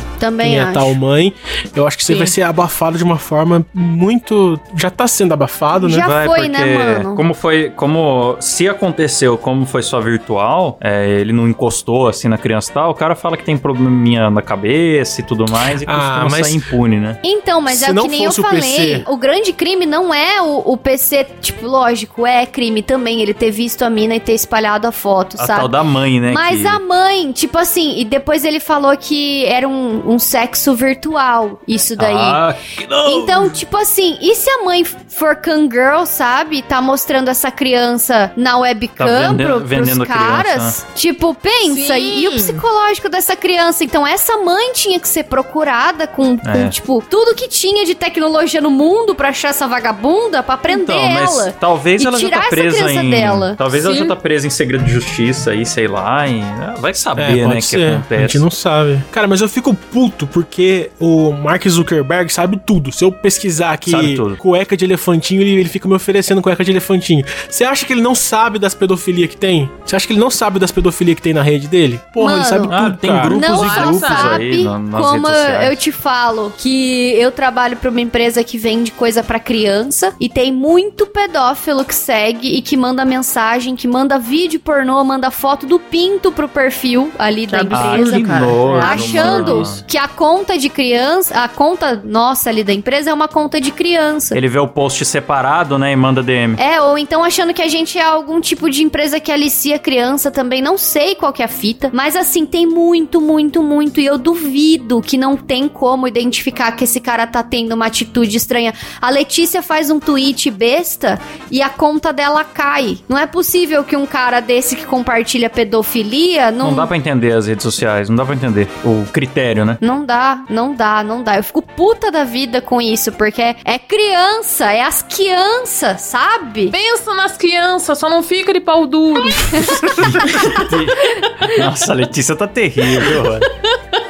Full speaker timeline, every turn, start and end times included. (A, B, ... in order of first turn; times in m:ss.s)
0:00.2-0:01.0 A
0:00.4-0:06.1 B
0:05.8-0:07.2 A
0:06.0-0:17.2 C
0:15.8-0:16.6 B
0:17.2-0:25.7 A
0:17.7-0:19.1 B
0:25.4-0:26.8 C
0:26.3-0:32.4 A
0:32.0-0:33.6 C
0:33.0-0:53.9 A
0:39.0-0:40.8 C
0:41.6-0:42.6 D
0:46.4-0:46.8 C
0:50.7-0:58.4 C
0:53.8-0:54.1 D
0:57.2-1:13.4 B
1:03.9-1:04.4 C
1:12.2-1:12.7 A
1:12.7-1:15.8 C
1:13.3-1:34.4 A
1:13.3-1:14.4 D
1:27.5-1:29.8 D
1:27.7-1:29.8 C
1:34.3-1:36.6 C
1:36.6-1:56.9 A
1:56.6-1:59.8 C
1:59.8-2:06.8 A
2:06.7-2:10.7 D
2:09.3-2:10.0 A
2:09.4-2:13.5 C
2:13.0-2:13.2 D